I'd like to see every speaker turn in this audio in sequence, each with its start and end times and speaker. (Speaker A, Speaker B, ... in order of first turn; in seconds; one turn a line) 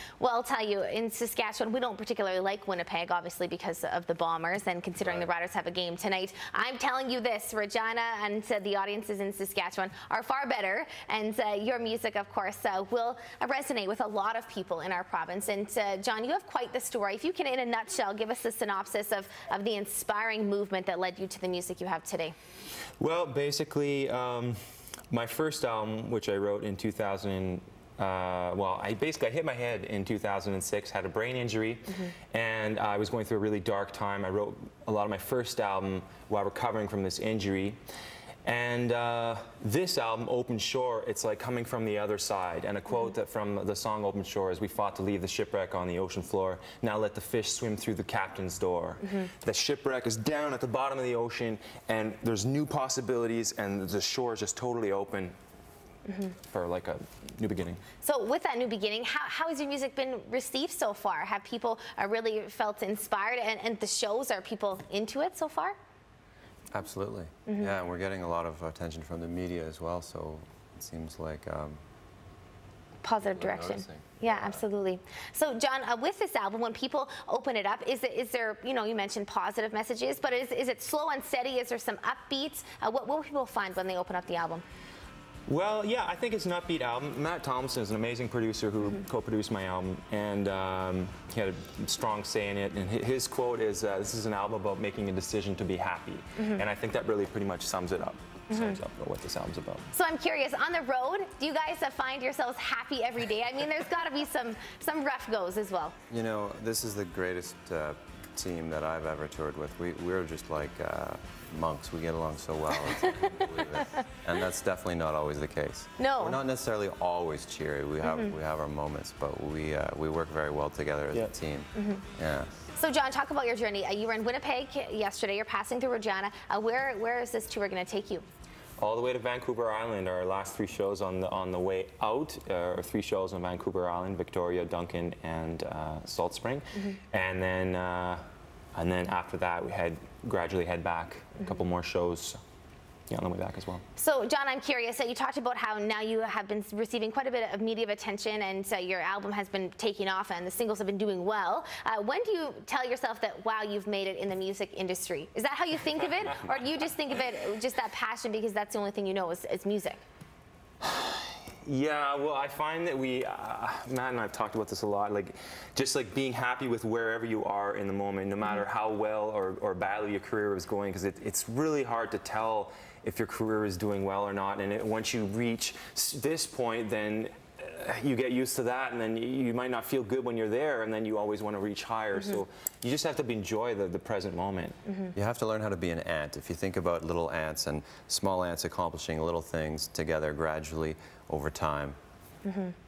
Speaker A: 0.2-22.4
Speaker B: 23.0-24.6
Speaker B: 25.1-37.8
Speaker B: 38.5-55.4
Speaker B: 56.5-57.8
Speaker A: 58.0-65.8
Speaker C: 66.7-71.8
Speaker A: 67.5-67.7
Speaker A: 73.0-84.6
Speaker C: 73.2-74.6
Speaker B: 85.5-99.9
Speaker A: 99.9-106.0
Speaker C: 106.1-122.5
Speaker A: 116.0-116.4
Speaker A: 121.8-122.0
Speaker A: 122.8-128.2
Speaker B: 128.8-138.2
Speaker B: 138.8-142.4
Speaker B: 143.1-143.8
Speaker A: 144.0-160.0
Speaker B: 160.8-184.8
Speaker C: 185.1-192.0
Speaker A: 192.5-192.7